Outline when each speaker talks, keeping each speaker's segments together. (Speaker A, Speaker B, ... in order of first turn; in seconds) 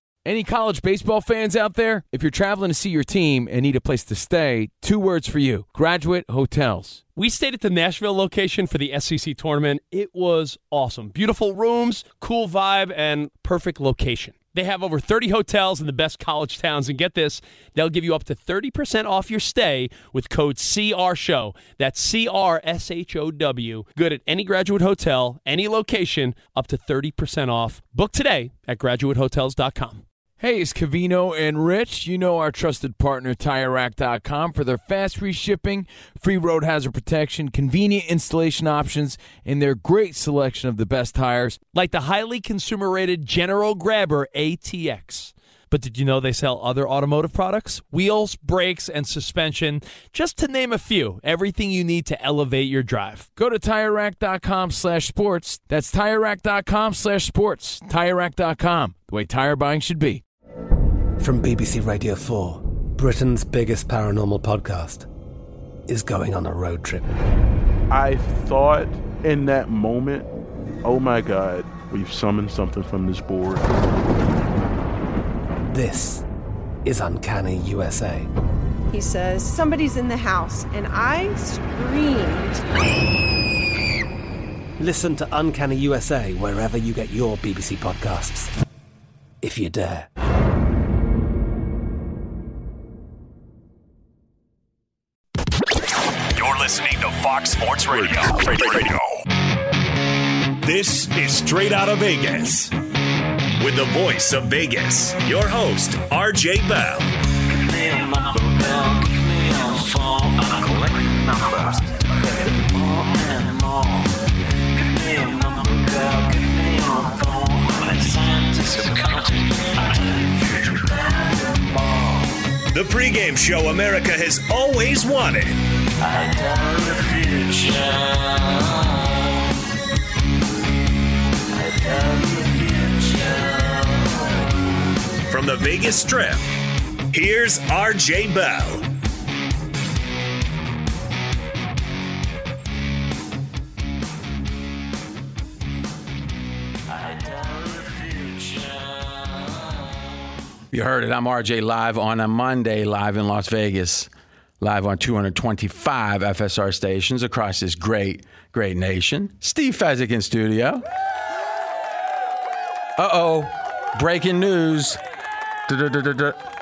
Speaker A: 0.2-7.0, 30.4-41.6, 53.4-60.2
Speaker B: 7.1-30.0, 41.7-53.3
Speaker C: 61.2-65.1, 65.9-67.0, 75.7-76.2, 76.8-78.3, 84.8-88.5, 89.4-90.1
Speaker D: 67.9-70.3, 70.8-73.7
Speaker E: 78.9-82.6
Speaker F: 96.3-99.2, 100.6-102.7, 103.6-107.1, 122.7-125.5, 135.3-136.4, 137.1-138.8
Speaker G: 150.7-160.8, 163.0-165.0, 165.7-166.4